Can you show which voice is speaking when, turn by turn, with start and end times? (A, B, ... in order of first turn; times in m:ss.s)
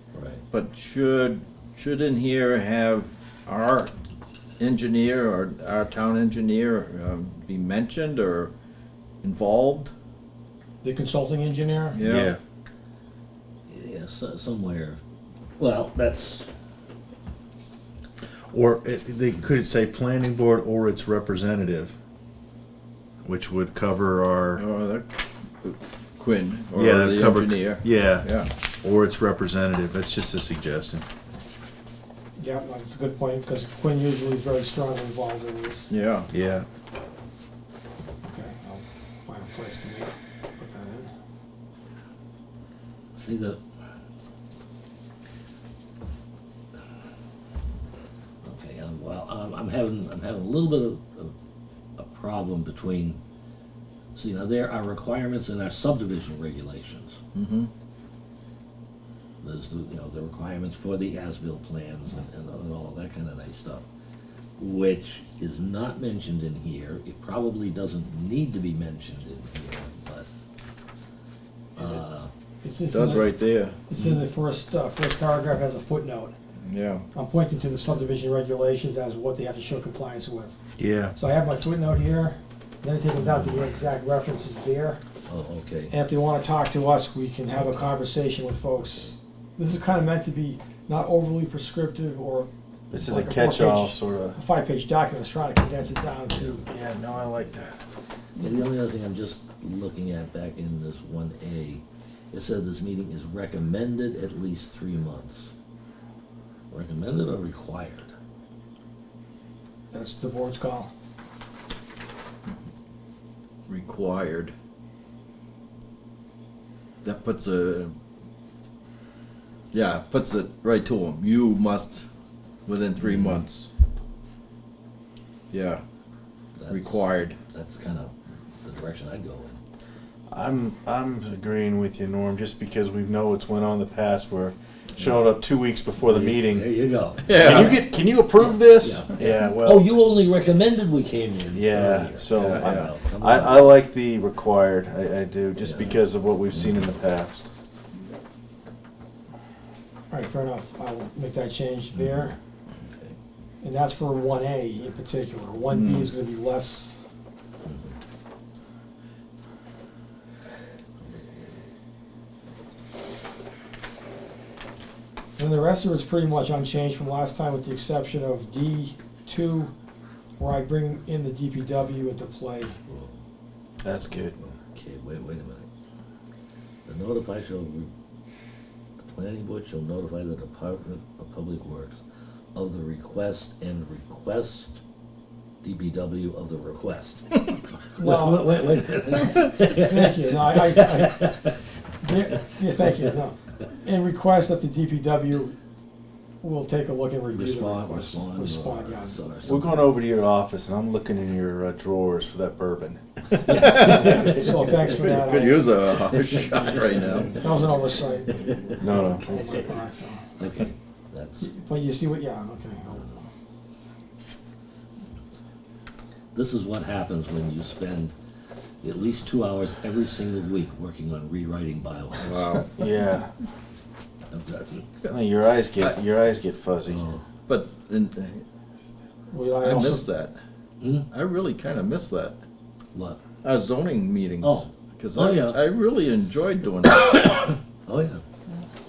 0:00.1-0:00.4 A
0:00.5-0:03.9 B
0:04.6-0:08.5 B
0:09.2-0:09.9 B
0:10.8-0:12.0 C
0:11.9-0:12.4 B
0:12.0-0:12.4 D
0:13.7-0:15.0 A
0:15.6-0:16.5 A
0:18.5-0:22.0 D
0:23.2-0:24.6 D
0:24.6-0:28.5 B
0:26.7-0:28.3 D
0:28.8-0:31.0 D
0:32.4-0:35.9 C
0:35.9-0:36.3 B
0:36.3-0:36.7 D
0:38.2-0:41.1 C
0:43.2-0:43.6 A
0:48.4-0:51.3 A
0:52.0-0:53.2 A
0:54.2-0:57.2 A
0:57.3-0:57.7 B
0:59.4-1:03.8 A
1:04.6-1:10.3 A
1:11.8-1:12.3 A
1:12.6-1:13.3 C
1:12.9-1:13.8 B
1:13.9-1:16.3 C
1:14.0-1:14.2 A
1:16.7-1:17.0 B
1:17.1-1:20.6 C
1:20.8-1:21.2 D
1:21.2-1:25.0 C
1:23.3-1:23.6 A
1:25.3-1:25.9 A
1:25.9-1:36.7 C
1:32.9-1:34.4 D
1:36.4-1:36.6 A
1:36.7-1:37.8 D
1:38.4-1:45.5 A
1:46.7-1:48.1 A
1:49.9-1:50.9 C
1:53.7-1:54.5 B
1:57.0-1:57.9 B
1:59.7-2:02.1 B
2:02.7-2:03.7 B
2:03.0-2:03.4 A
2:05.5-2:05.8 B
2:06.6-2:09.6 A
2:06.7-2:07.4 B
2:10.3-2:16.7 D
2:16.0-2:23.8 A
2:17.3-2:17.8 B
2:17.3-2:19.9 D
2:21.5-2:27.5 D
2:22.4-2:22.9 B
2:25.6-2:26.0 A
2:26.5-2:26.8 A
2:30.1-2:32.4 C
2:31.9-2:33.2 A
2:33.6-2:37.0 C
2:35.7-2:36.1 B
2:37.6-2:38.0 A
2:45.4-2:49.7 C
2:50.4-2:52.8 C
2:52.9-2:53.2 A
2:53.8-2:54.4 D
2:54.2-2:55.7 A
2:56.9-2:57.9 A
2:59.0-3:02.0 A
3:02.5-3:04.8 A
3:05.6-3:07.5 A
3:08.0-3:11.5 C
3:08.0-3:11.6 A
3:12.0-3:15.6 C
3:16.4-3:19.2 C
3:17.3-3:20.0 A
3:19.4-3:24.0 D
3:23.4-3:24.9 A
3:23.5-3:27.4 B
3:24.1-3:26.0 C
3:27.3-3:30.2 C
3:28.8-3:29.7 D
3:30.4-3:31.5 A
3:31.4-3:33.2 C
3:36.3-3:38.1 A
3:38.8-3:42.7 A
3:42.2-3:42.7 B
3:42.8-3:43.3 D
3:44.3-3:44.9 A
3:45.1-3:47.0 D
3:46.9-3:47.2 A
3:47.5-3:48.4 B
3:49.3-3:50.1 C
3:49.6-3:50.4 B
3:50.8-3:51.1 A
3:51.1-3:52.4 B
3:52.9-3:53.2 A
3:53.4-3:57.3 B
3:54.4-3:55.6 A
3:57.3-3:58.2 A